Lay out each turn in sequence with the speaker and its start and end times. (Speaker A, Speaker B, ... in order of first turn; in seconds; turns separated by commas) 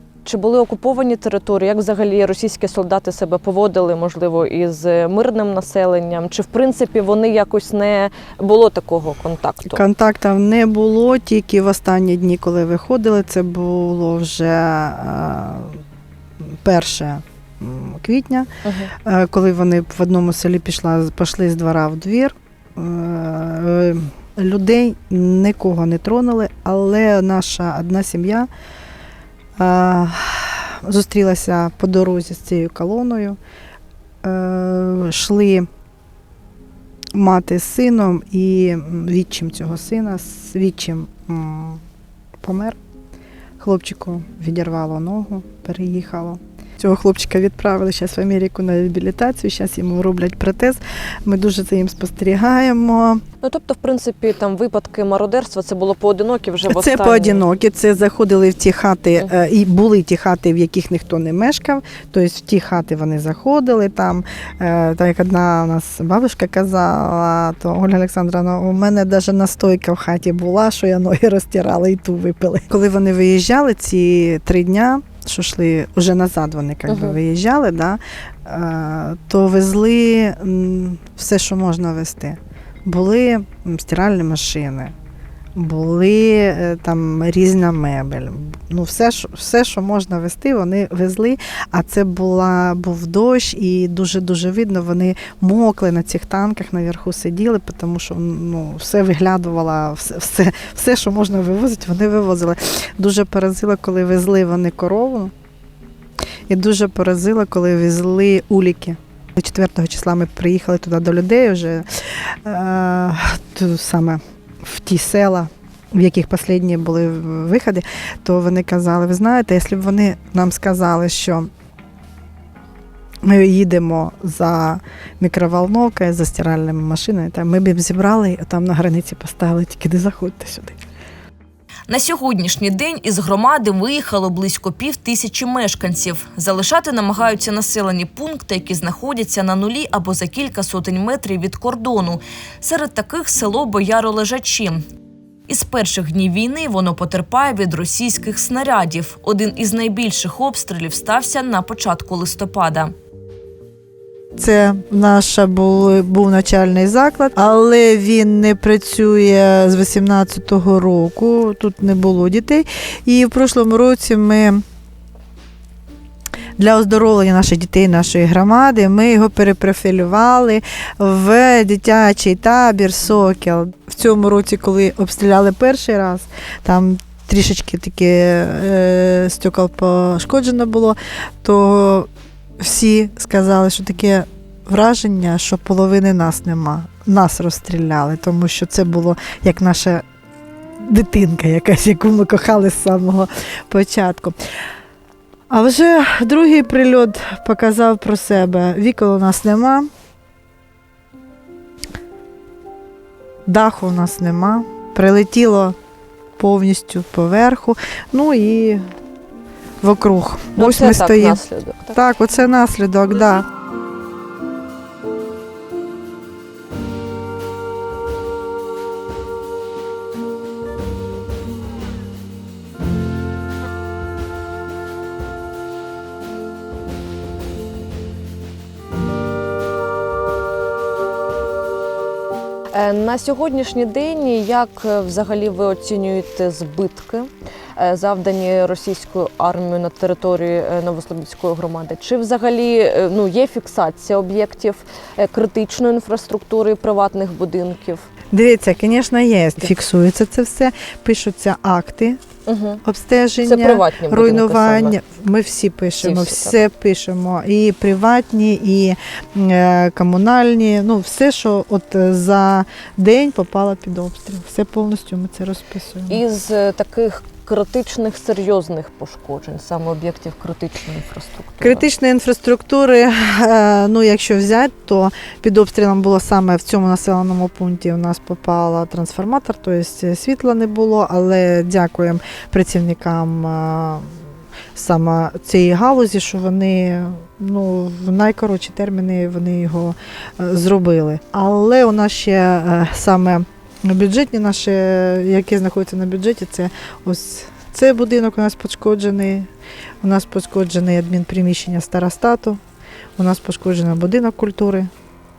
Speaker A: 0.2-9.8, Speaker B: 9.7-15.8, Speaker B: 16.6-18.5, Speaker A: 18.6-18.9, Speaker B: 19.0-28.5, Speaker B: 29.6-33.4, Speaker B: 34.2-35.7, Speaker B: 37.1-41.8, Speaker B: 42.4-42.8, Speaker B: 43.6-53.2, Speaker A: 53.4-57.4, Speaker B: 56.6-84.9, Speaker A: 76.9-77.2, Speaker B: 85.5-105.3, Speaker B: 106.5-121.5, Speaker B: 123.2-130.8, Speaker C: 131.9-144.8, Speaker C: 145.5-152.9, Speaker B: 154.3-164.6, Speaker B: 166.6-190.0, Speaker B: 190.8-194.3, Speaker B: 195.5-199.9, Speaker B: 203.4-205.8, Speaker B: 206.4-208.9, Speaker B: 209.8-211.4, Speaker A: 210.6-212.0, Speaker B: 211.9-213.4, Speaker A: 232.7-248.1, Speaker B: 248.3-252.2, Speaker A: 252.4-252.8, Speaker B: 252.8-266.2, Speaker A: 253.4-255.0, Speaker A: 256.0-256.6, Speaker A: 266.1-271.9, Speaker B: 271.6-284.1, Speaker B: 284.7-299.5, Speaker B: 300.0-302.6, Speaker B: 303.2-304.9